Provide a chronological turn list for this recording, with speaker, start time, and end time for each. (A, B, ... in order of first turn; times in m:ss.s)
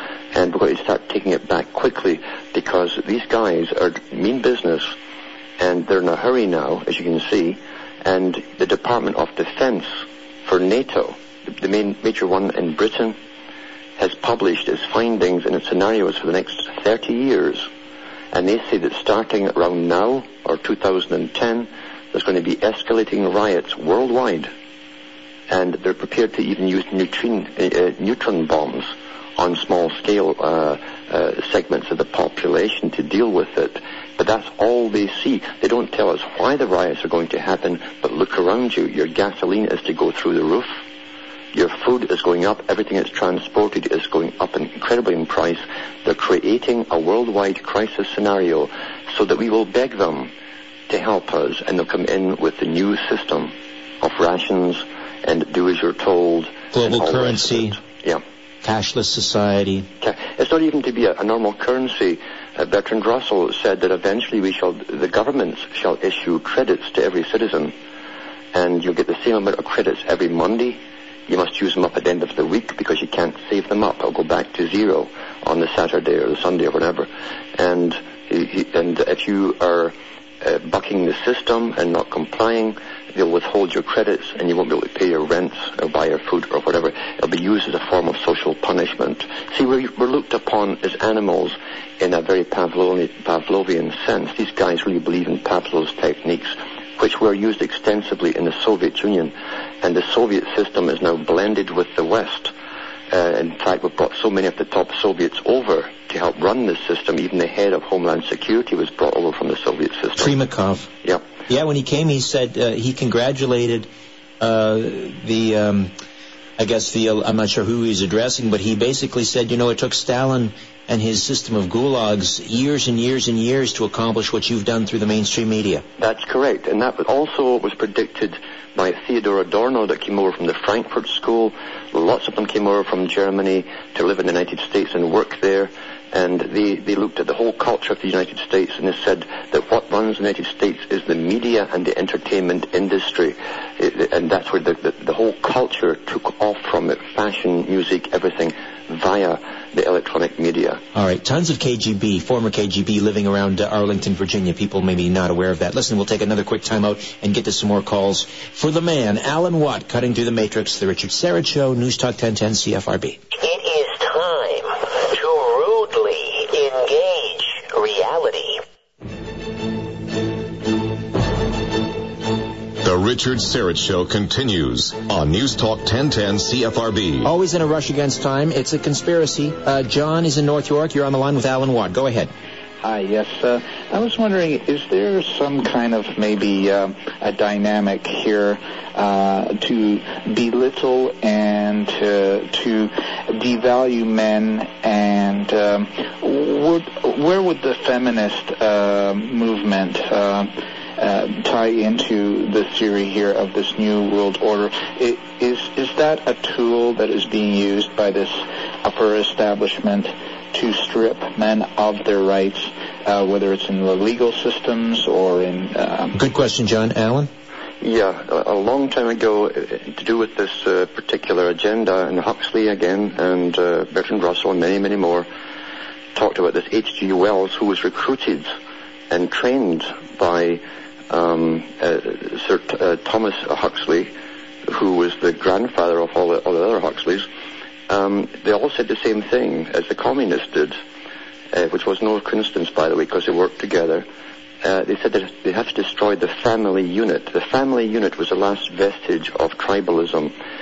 0:00.3-0:04.9 A
0:05.6-0:13.2 A
0:14.0-0:17.7 A
0:18.3-0:24.5 A
0:25.5-0:40.8 A
0:41.5-0:50.3 A
0:50.9-0:58.2 A
0:56.7-0:57.8 B
0:58.6-0:59.9 B
1:00.0-1:07.7 A
1:08.5-1:42.5 A
1:43.1-1:50.3 A
1:50.2-1:50.9 B
1:51.5-1:53.9 B
1:54.4-1:55.9 B
1:56.6-2:05.8 B
2:06.0-2:30.8 A
2:30.9-2:43.2 B
2:43.4-2:48.6 C
2:52.8-2:57.3 D
2:57.2-3:02.3 B
3:02.8-3:36.2 E
3:36.1-3:37.3 B
3:37.8-3:45.3 A
3:46.2-3:48.5 A
3:49.1-3:54.1 A
3:54.7-3:57.3 A
3:57.9-4:00.8 A
4:01.5-4:04.1 A
4:04.6-4:10.3 A